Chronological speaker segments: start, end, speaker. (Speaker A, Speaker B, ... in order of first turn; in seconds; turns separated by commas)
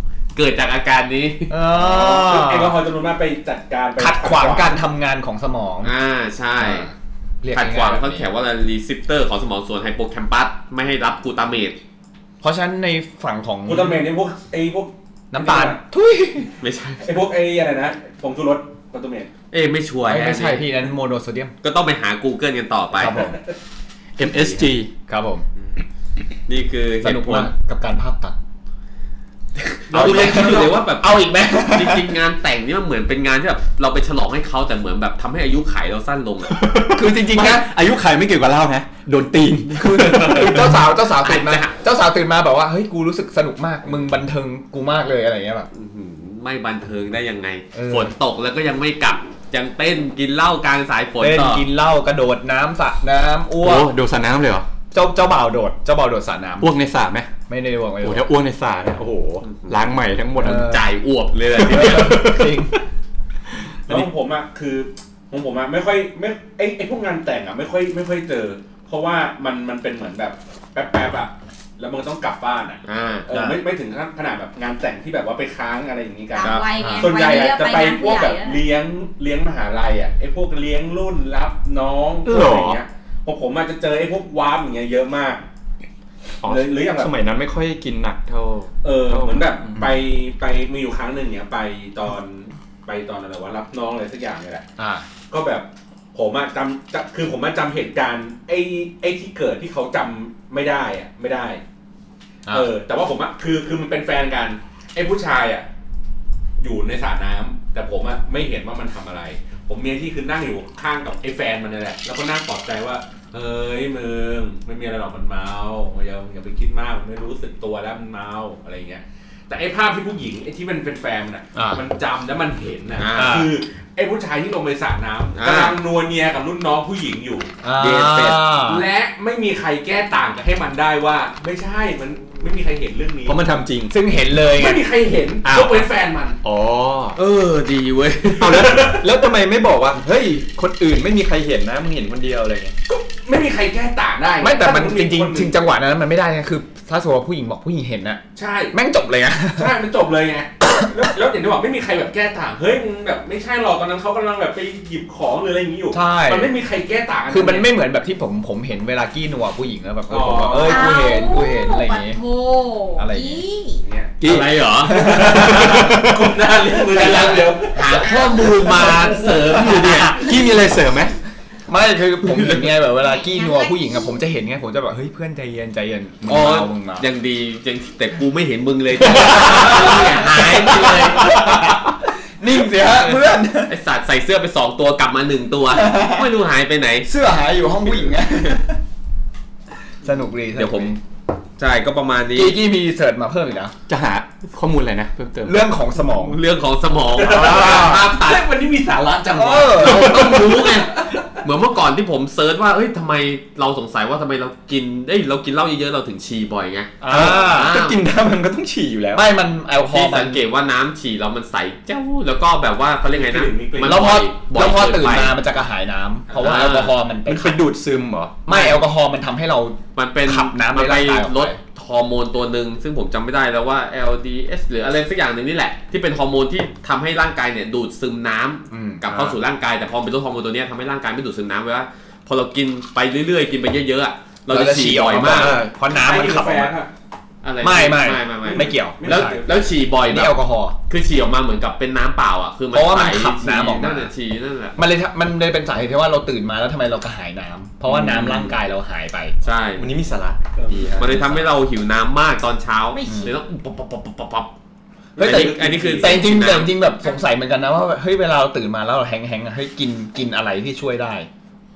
Speaker A: 0.3-1.6, Speaker B: 1.5-2.8, Speaker C: 1.8-4.8, Speaker B: 4.0-5.9, Speaker A: 5.8-6.9, Speaker B: 6.6-8.3, Speaker A: 7.5-11.8, Speaker B: 12.4-14.1, Speaker C: 13.7-15.8, Speaker B: 15.3-16.5, Speaker A: 16.6-17.1, Speaker C: 17.0-19.3, Speaker A: 19.5-20.7, Speaker B: 20.1-21.5, Speaker A: 21.6-23.3, Speaker B: 22.9-23.4, Speaker D: 24.2-24.9, Speaker B: 25.1-25.4, Speaker A: 26.5-27.5, Speaker B: 27.0-28.4, Speaker A: 29.6-36.5, Speaker C: 29.9-30.8, Speaker B: 29.9-32.1, Speaker D: 36.5-40.8, Speaker B: 36.9-37.7, Speaker B: 39.7-45.7, Speaker A: 39.8-41.8, Speaker A: 45.7-51.6, Speaker B: 47.7-48.1, Speaker B: 51.2-53.9, Speaker D: 53.6-54.7, Speaker B: 54.9-56.7, Speaker D: 56.6-57.3, Speaker B: 57.5-58.3, Speaker D: 58.0-60.8, Speaker A: 59.4-59.8, Speaker B: 60.4-60.8, Speaker A: 60.4-62.2, Speaker B: 61.5-62.8, Speaker D: 61.6-62.8, Speaker C: 63.9-85.4, Speaker A: 72.8-73.3, Speaker B: 73.3-73.6, Speaker E: 76.3-78.6, Speaker A: 76.4-76.7, Speaker B: 76.8-77.1, Speaker D: 82.2-82.8, Speaker D: 86.4-90.0, Speaker C: 86.5-87.1, Speaker C: 88.8-94.6, Speaker B: 94.8-95.1, Speaker C: 95.3-101.6, Speaker C: 102.5-105.7, Speaker C: 106.6-127.5, Speaker B: 121.5-121.8, Speaker A: 123.0-123.5, Speaker B: 123.1-123.5, Speaker A: 125.3-125.8, Speaker B: 127.6-128.9, Speaker A: 127.8-128.4, Speaker C: 128.7-133.4, Speaker D: 133.2-133.9, Speaker B: 133.9-134.9, Speaker C: 134.5-136.4, Speaker D: 135.4-135.9, Speaker D: 136.4-137.2, Speaker A: 137.2-138.7, Speaker D: 138.4-142.7, Speaker C: 138.4-139.0, Speaker C: 142.9-145.5, Speaker B: 144.4-149.8, Speaker C: 148.4-148.8, Speaker C: 149.6-157.7, Speaker B: 155.9-156.6, Speaker B: 157.3-162.2, Speaker C: 160.1-161.0, Speaker E: 160.6-163.8, Speaker B: 163.0-163.4, Speaker C: 163.8-164.1, Speaker D: 164.2-166.5, Speaker A: 164.2-165.3, Speaker B: 164.9-165.8, Speaker C: 164.9-168.9, Speaker B: 166.9-167.5, Speaker A: 167.0-170.2, Speaker D: 169.3-171.2, Speaker B: 169.7-170.3, Speaker B: 171.7-177.1, Speaker E: 173.0-174.1, Speaker A: 176.2-181.4, Speaker B: 179.0-183.7, Speaker D: 179.2-179.7, Speaker D: 181.3-181.8, Speaker A: 182.9-187.1, Speaker B: 185.7-186.3, Speaker B: 187.1-188.8, Speaker B: 190.0-191.0, Speaker A: 190.6-191.0, Speaker A: 191.6-192.6, Speaker B: 192.3-193.8, Speaker D: 193.9-195.7, Speaker B: 195.4-196.4, Speaker A: 196.0-198.4, Speaker C: 197.2-201.3, Speaker B: 197.3-198.1, Speaker B: 199.3-200.4, Speaker A: 199.8-208.0, Speaker B: 207.0-207.8, Speaker D: 207.1-209.3, Speaker B: 209.1-210.4, Speaker A: 209.9-215.3, Speaker C: 213.1-214.3, Speaker B: 213.8-217.6, Speaker A: 216.3-216.9, Speaker D: 217.3-218.4, Speaker B: 218.4-221.6, Speaker A: 218.5-218.8, Speaker A: 219.9-235.6, Speaker B: 228.7-229.3, Speaker B: 234.5-236.7, Speaker D: 235.2-235.7, Speaker C: 235.9-236.9, Speaker A: 237.4-244.8, Speaker B: 237.6-239.4, Speaker C: 238.4-239.7, Speaker B: 240.1-240.8, Speaker B: 242.7-244.1, Speaker B: 244.8-249.3, Speaker A: 247.9-248.5, Speaker A: 249.4-249.9, Speaker D: 249.8-251.3, Speaker C: 250.6-251.3, Speaker A: 251.0-254.5, Speaker B: 253.0-253.3, Speaker C: 255.2-256.2, Speaker A: 255.2-256.7, Speaker B: 255.2-261.3